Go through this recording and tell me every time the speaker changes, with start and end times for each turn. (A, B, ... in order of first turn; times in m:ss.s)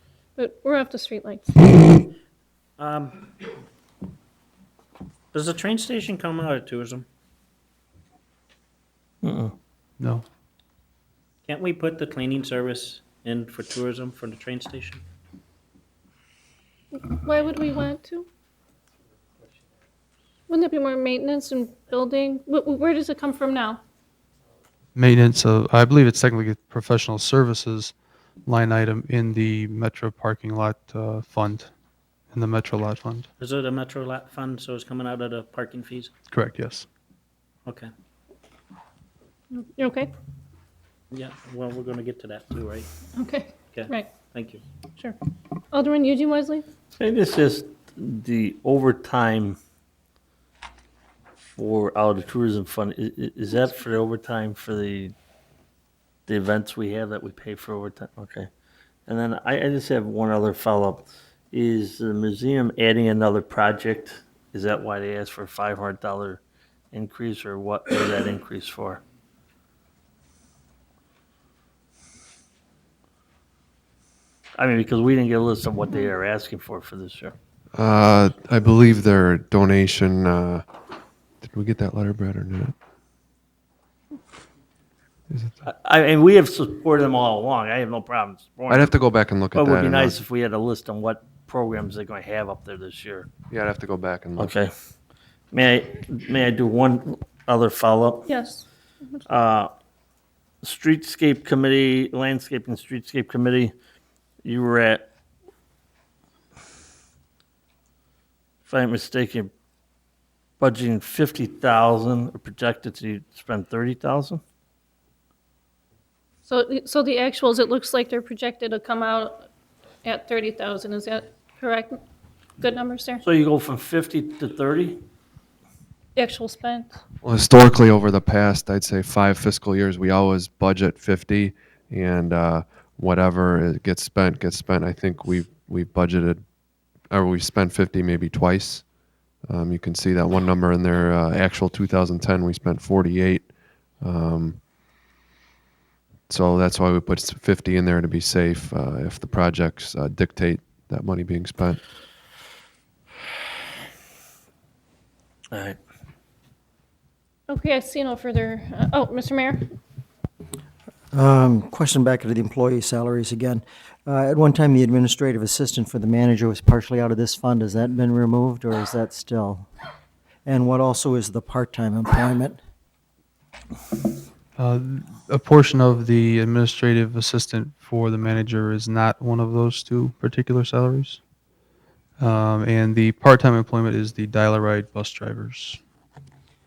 0:00.4-0:02.0 A
0:02.8-0:03.2 B
0:05.3-0:07.1 B
0:09.2-0:09.5 C
0:11.5-0:15.0 B
0:16.9-0:18.3 A
0:20.5-0:23.8 A
0:25.0-0:31.7 D
0:32.3-0:33.3 D
0:33.4-0:36.1 B
0:36.3-0:36.9 D
0:39.5-0:40.1 A
0:41.1-0:42.9 B
0:43.1-0:44.2 A
0:43.7-0:44.6 B
0:45.7-0:46.6 A
0:47.0-0:49.6 C
0:51.4-0:55.1 C
0:56.3-0:58.5 C
0:59.1-1:06.4 C
1:06.9-1:09.0 C
1:14.6-1:17.4 C
1:17.8-1:20.6 E
1:21.4-1:22.8 E
1:25.3-1:25.6 E
1:25.6-1:28.9 C
1:28.7-1:30.2 E
1:29.5-1:33.3 C
1:33.5-1:34.5 E
1:34.4-1:34.7 C
1:35.5-1:38.3 C
1:38.3-1:39.2 A
1:39.3-1:39.7 C
1:40.6-1:43.7 C
1:44.4-1:45.0 C
1:48.7-1:49.5 C
1:50.6-1:54.4 C
1:56.4-1:59.4 A
2:00.0-2:02.0 A
2:02.6-2:03.2 A
2:03.2-2:05.0 C
2:06.2-2:07.0 A
2:07.2-2:16.4 E
2:17.1-2:24.6 E
2:26.3-2:31.8 E
2:35.5-2:35.8 C
2:37.5-2:39.7 A
2:41.1-2:49.7 F
2:50.4-2:52.6 F
2:54.6-3:01.2 D
3:02.2-3:05.8 D